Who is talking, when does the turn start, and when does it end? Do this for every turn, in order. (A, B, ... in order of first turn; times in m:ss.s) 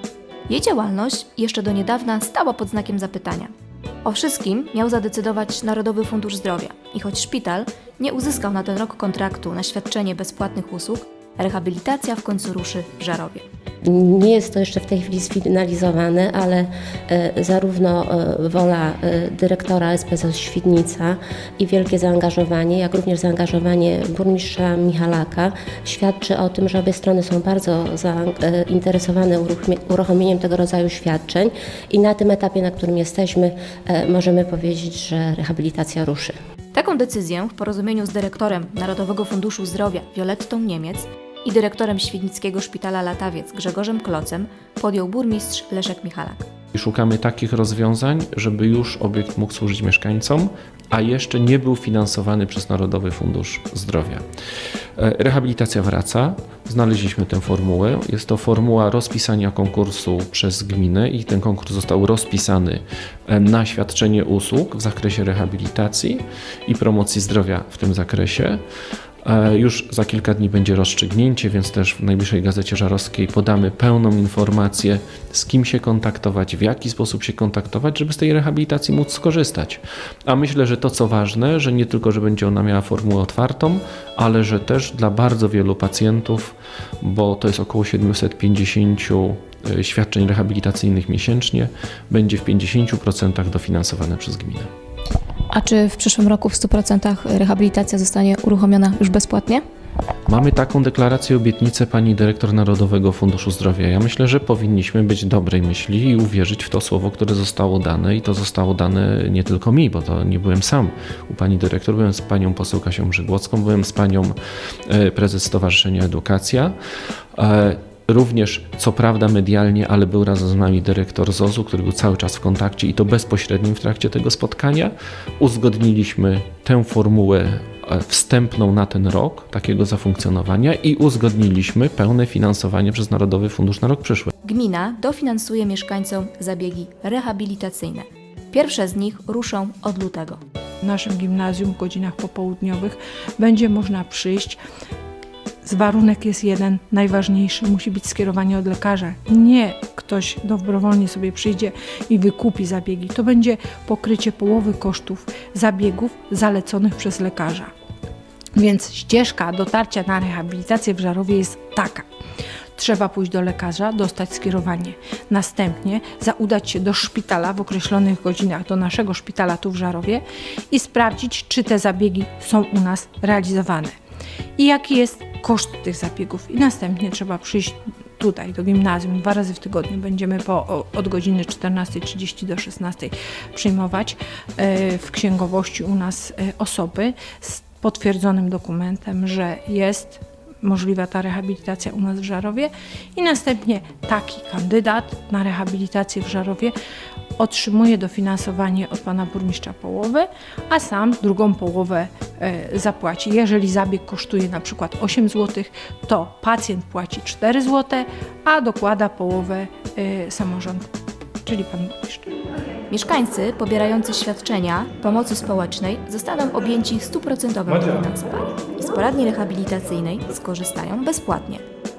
0:00.5-0:03.5 A
0:04.0-0:13.4 A
0:13.9-0:36.3 B
0:36.7-0:46.5 A
0:46.7-0:54.2 C
0:55.0-1:08.6 C
1:09.2-1:34.7 C
1:35.5-1:39.6 A
1:40.3-1:54.3 C
1:54.9-1:56.7 C
1:57.4-2:14.3 C
2:14.4-2:20.4 A
2:20.8-2:24.6 D
2:25.6-2:37.7 D
2:38.6-2:42.1 D
2:42.8-2:53.9 D
2:54.6-3:16.7 D
3:17.4-3:30.9 D
3:31.4-3:32.3 D
3:32.9-3:41.6 A